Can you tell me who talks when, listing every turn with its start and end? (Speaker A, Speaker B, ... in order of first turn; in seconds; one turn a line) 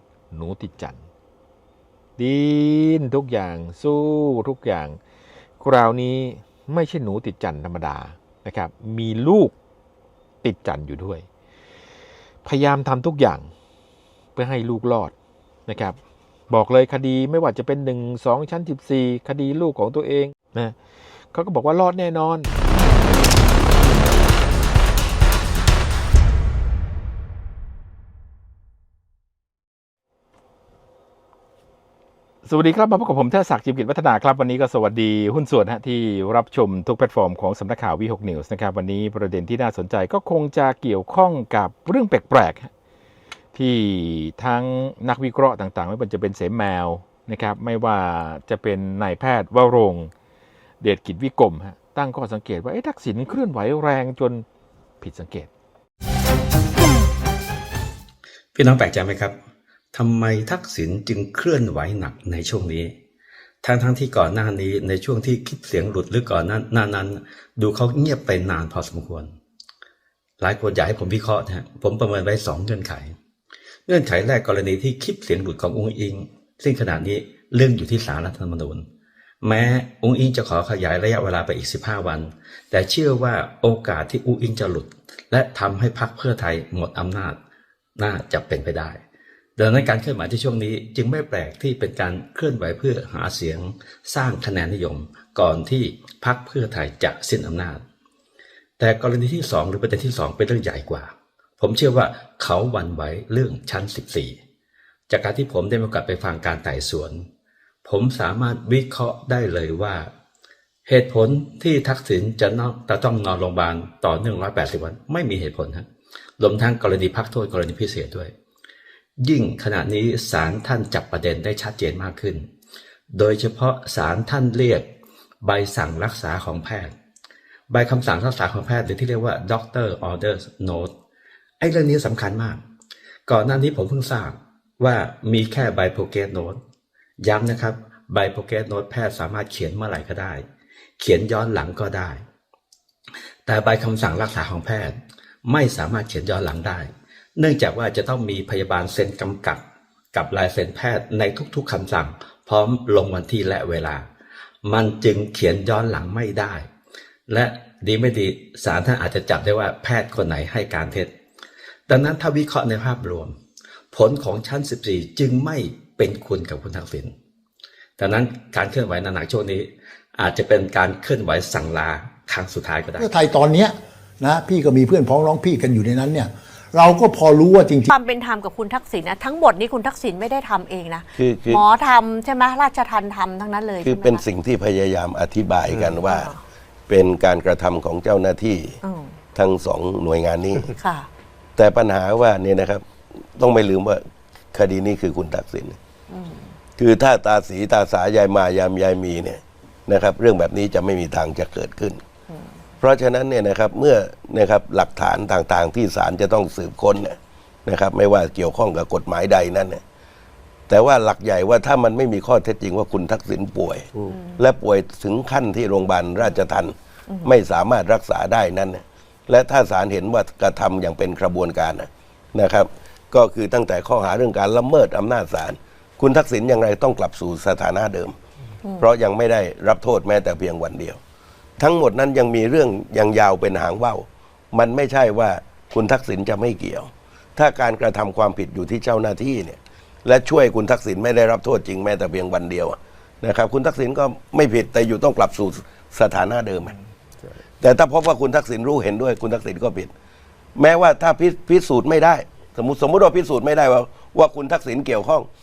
Speaker A: 0.3-1.0
Speaker A: 2.2-5.0
Speaker A: 5.6-9.5
Speaker A: 10.4-11.3
Speaker A: 12.4-13.5
Speaker A: 14.4-15.1
Speaker A: 15.7-16.0
Speaker A: 16.5-20.8
Speaker A: 21.3-22.5
Speaker A: 32.5-42.7
Speaker A: 43.5-50.1
Speaker A: 50.8-54.5
Speaker A: 55.0-55.5
Speaker B: 58.5-59.4
Speaker B: 59.9-62.9
Speaker B: 63.6-69.3
Speaker B: 70.4-73.1
Speaker B: 73.9-78.8
Speaker B: 79.4-87.4
Speaker B: 88.0-89.0
Speaker B: 89.6-97.8
Speaker B: 98.8-104.4
Speaker B: 105.1-107.3
Speaker B: 107.8-110.1
Speaker B: 110.9-115.9
Speaker B: 116.4-118.3
Speaker B: 119.2-122.5
Speaker B: 123.1-124.9
Speaker B: 125.4-126.9
Speaker B: 127.7-130.9
Speaker B: 131.6-132.6
Speaker B: 133.3-136.6
Speaker B: 137.2-140.4
Speaker B: 141.0-142.2
Speaker B: 143.5-149.6
Speaker B: 150.1-154.1
Speaker B: 154.7-156.7
Speaker B: 157.3-161.1
Speaker B: 161.9-163.3
Speaker B: 163.9-167.1
Speaker B: 168.0-173.1
Speaker C: 172.9-177.9
Speaker D: 177.9-184.2
Speaker E: 181.2-181.7
Speaker E: 183.8-186.4
Speaker D: 185.9-186.4
Speaker E: 186.9-188.8
Speaker D: 188.8-189.2
Speaker E: 189.3-190.7
Speaker D: 190.8-191.1
Speaker E: 191.6-192.8
Speaker E: 193.4-195.8
Speaker D: 196.1-196.6
Speaker E: 196.8-202.0
Speaker D: 202.3-202.6
Speaker E: 202.8-209.8
Speaker E: 210.7-228.2
Speaker D: 214.1-214.4
Speaker E: 228.8-231.0
Speaker E: 231.6-246.8
Speaker E: 247.6-249.9
Speaker E: 250.6-255.3